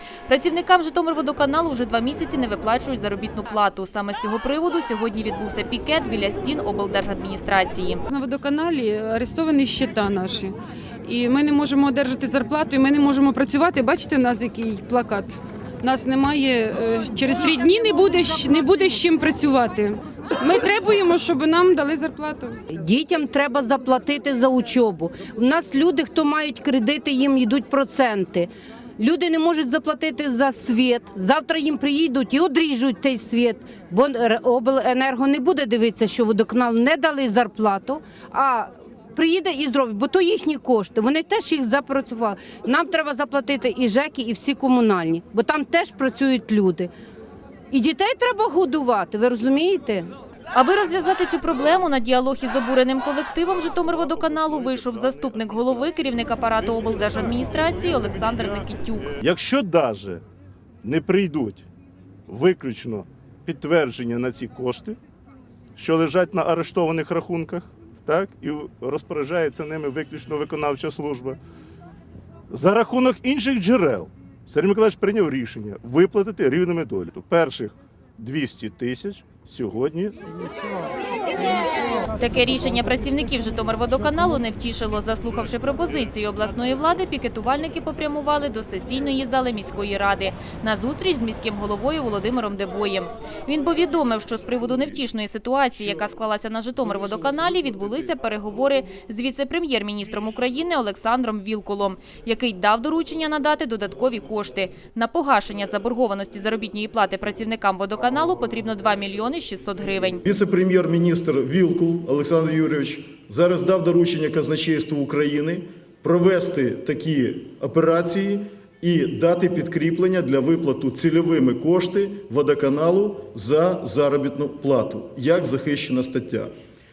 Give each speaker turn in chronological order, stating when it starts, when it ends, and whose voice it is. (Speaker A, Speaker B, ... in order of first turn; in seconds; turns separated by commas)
Speaker A: 0.3-8.0, Speaker B: 8.1-22.6, Speaker C: 22.7-46.9, Speaker C: 47.7-50.1, Speaker A: 50.5-59.2, Speaker D: 53.9-56.2, Speaker D: 59.2-60.2, Speaker D: 60.8-61.7, Speaker D: 62.3-65.0, Speaker D: 65.8-71.4, Speaker D: 72.5-80.2, Speaker A: 82.2-110.2, Speaker E: 110.2-126.5